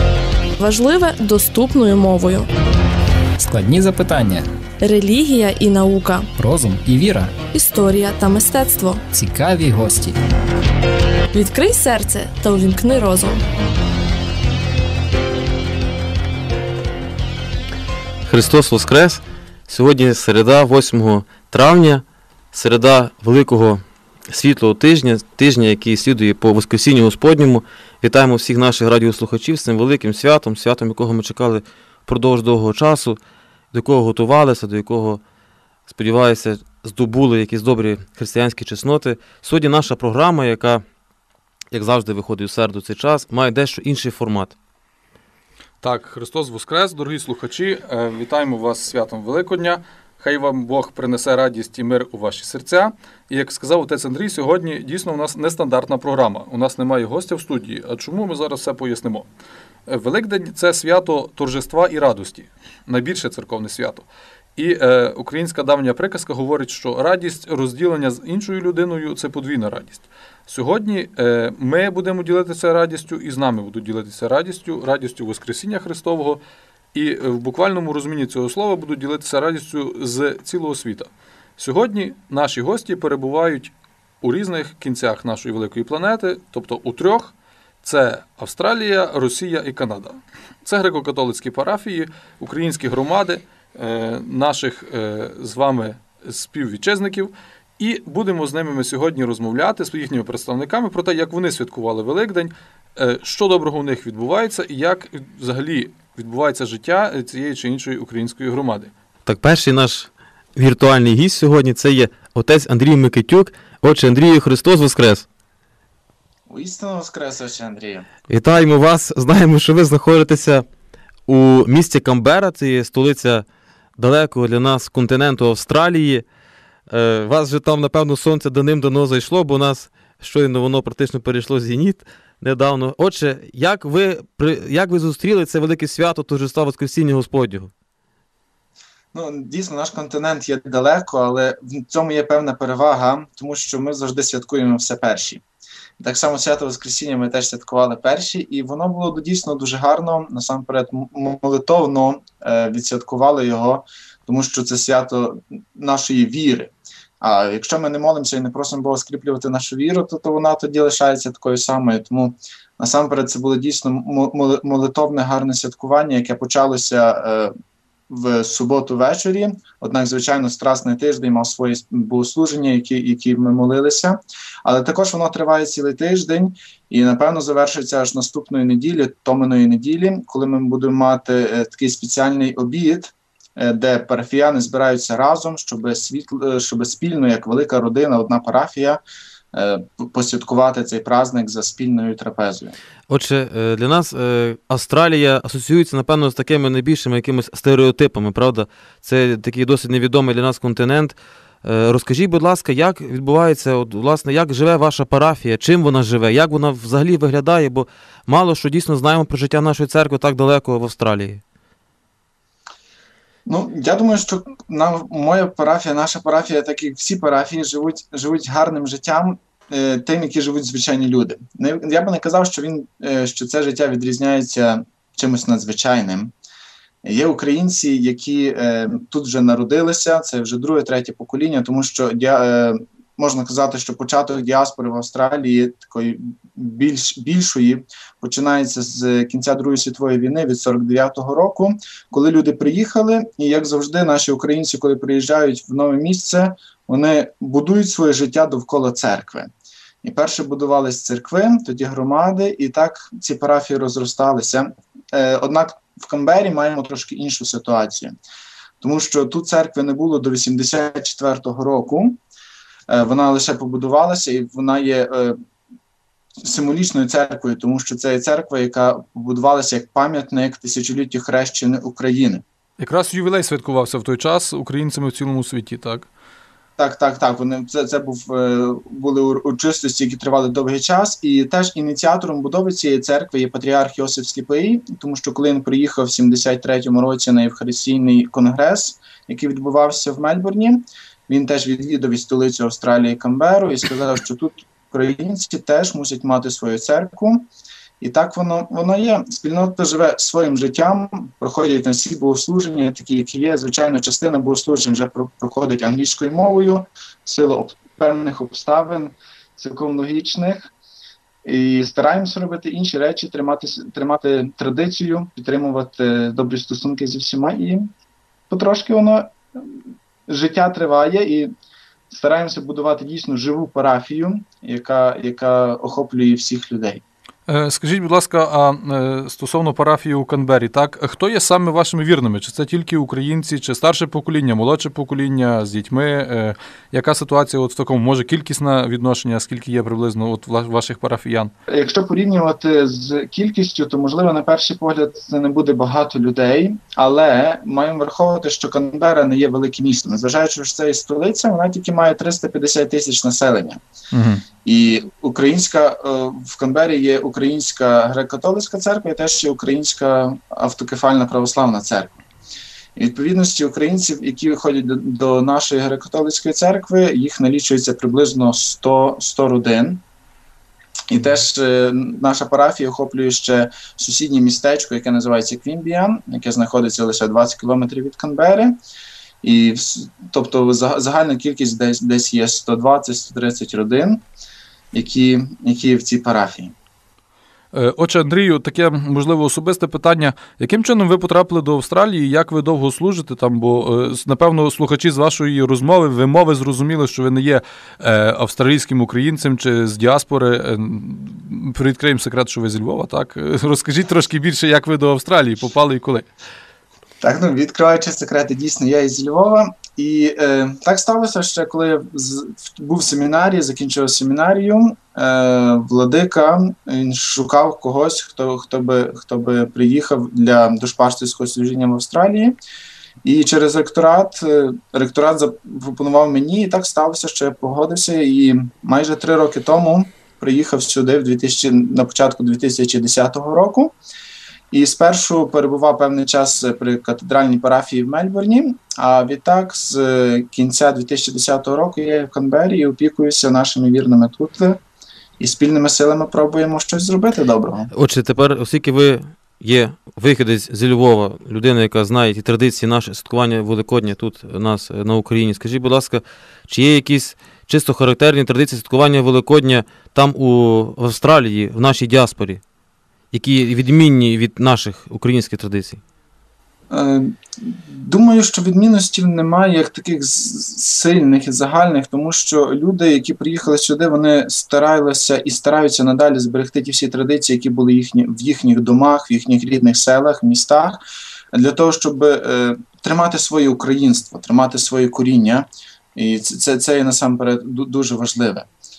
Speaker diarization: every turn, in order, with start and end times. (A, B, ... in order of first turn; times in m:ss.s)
0:00.6-0:02.5 A
0:03.4-0:04.5 B
0:04.8-0:06.3 A
0:06.3-0:07.4 B
0:07.5-0:09.0 A
0:09.1-0:10.2 B
0:11.3-0:13.4 A
0:18.2-0:33.2 C
0:33.7-0:35.2 C
0:35.9-0:40.8 C
0:41.7-0:44.5 C
0:45.8-0:59.2 D
0:59.9-1:16.4 D
1:16.9-1:48.9 D
1:49.2-1:55.2 C
1:56.5-1:58.0 E
1:58.3-2:00.6 C
2:01.3-2:03.4 C
2:04.0-2:06.2 C
2:06.9-2:17.7 C
2:19.1-2:25.4 E
2:26.0-2:47.5 E
2:48.1-3:09.0 E
3:09.5-3:12.7 E
3:13.1-3:31.4 C
3:33.4-3:46.3 E
3:47.0-4:09.5 E
4:10.0-4:18.2 E
4:18.8-4:22.2 E
4:22.9-4:25.4 E
4:26.4-4:32.4 E
4:32.8-4:36.1 D
4:36.8-4:57.5 E
4:58.0-5:10.7 E
5:11.4-5:17.9 E
5:18.5-5:21.5 E
5:22.1-5:27.0 E
5:27.5-5:41.5 D
5:41.7-5:53.8 E
5:54.1-5:54.4 D
5:54.6-6:02.2 E
6:03.0-6:10.0 E
6:11.1-6:18.8 E
6:19.4-6:24.2 E
6:24.9-6:26.7 E
6:27.7-6:46.3 D
6:47.2-7:02.6 E
7:03.2-7:14.0 E
7:14.7-7:24.8 E
7:25.4-7:27.9 E
7:27.9-7:42.6 C
7:43.3-7:46.0 C
7:46.9-8:01.0 E
8:01.5-8:08.7 E